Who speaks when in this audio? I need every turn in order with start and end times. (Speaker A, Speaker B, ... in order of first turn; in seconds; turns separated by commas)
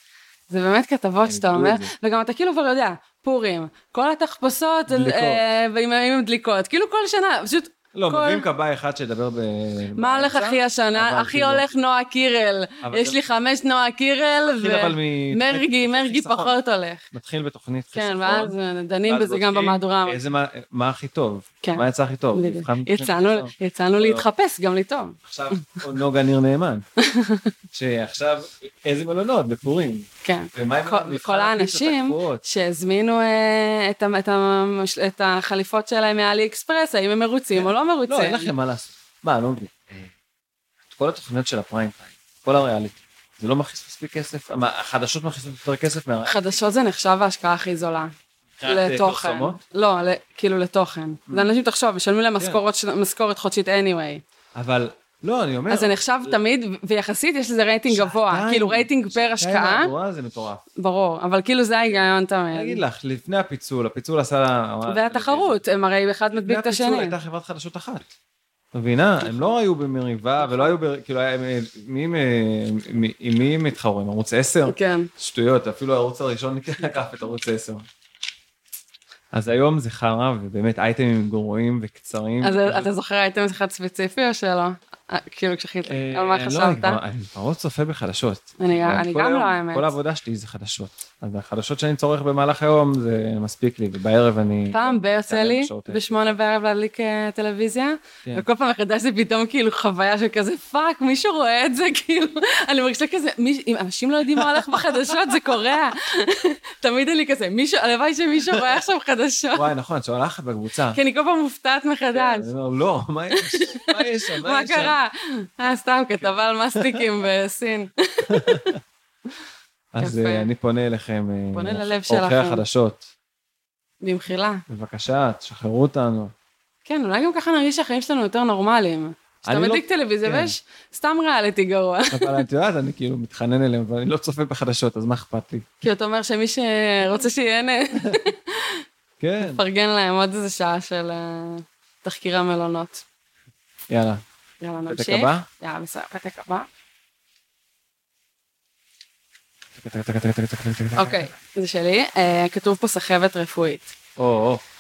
Speaker A: 0.5-8.4, Speaker B: 1.2-1.9, Speaker B: 4.9-5.4, Speaker B: 7.9-11.7, Speaker A: 10.0-17.1, Speaker B: 12.8-13.2, Speaker B: 14.4-16.5, Speaker B: 17.1-18.6, Speaker A: 17.9-20.2, Speaker B: 19.1-24.3, Speaker A: 21.6-25.8, Speaker B: 25.2-26.9, Speaker A: 27.0-27.5, Speaker B: 27.7-32.4, Speaker A: 30.2-38.5, Speaker B: 37.6-40.1, Speaker B: 40.9-46.4, Speaker A: 46.3-48.1, Speaker B: 48.6-49.6, Speaker A: 48.6-54.2, Speaker B: 54.5-56.4, Speaker A: 55.7-59.9, Speaker B: 57.9-60.6, Speaker A: 60.8-62.8, Speaker B: 62.5-65.6, Speaker A: 64.9-67.2, Speaker B: 66.5-68.1, Speaker B: 68.7-77.8, Speaker A: 69.2-69.5, Speaker A: 70.4-70.7, Speaker A: 74.7-75.1, Speaker B: 79.3-82.9, Speaker A: 82.4-87.0, Speaker B: 85.9-96.3, Speaker A: 88.6-89.9, Speaker A: 94.7-109.7, Speaker B: 104.3-105.3, Speaker B: 108.5-108.8, Speaker B: 109.5-111.0, Speaker A: 110.9-112.5, Speaker B: 112.1-115.0, Speaker A: 113.3-118.7, Speaker B: 116.8-117.0, Speaker B: 118.3-118.8, Speaker B: 119.9-123.1, Speaker A: 120.0-120.5, Speaker A: 121.5-122.6, Speaker A: 124.0-124.6, Speaker B: 124.7-126.3, Speaker A: 126.9-132.4, Speaker B: 129.4-130.5, Speaker B: 132.1-135.7, Speaker A: 135.8-138.8, Speaker B: 139.2-139.6, Speaker A: 139.4-143.0, Speaker B: 143.9-144.2, Speaker A: 144.6-146.7, Speaker B: 144.9-145.5, Speaker B: 149.8-151.3, Speaker A: 151.0-153.9, Speaker B: 154.2-154.6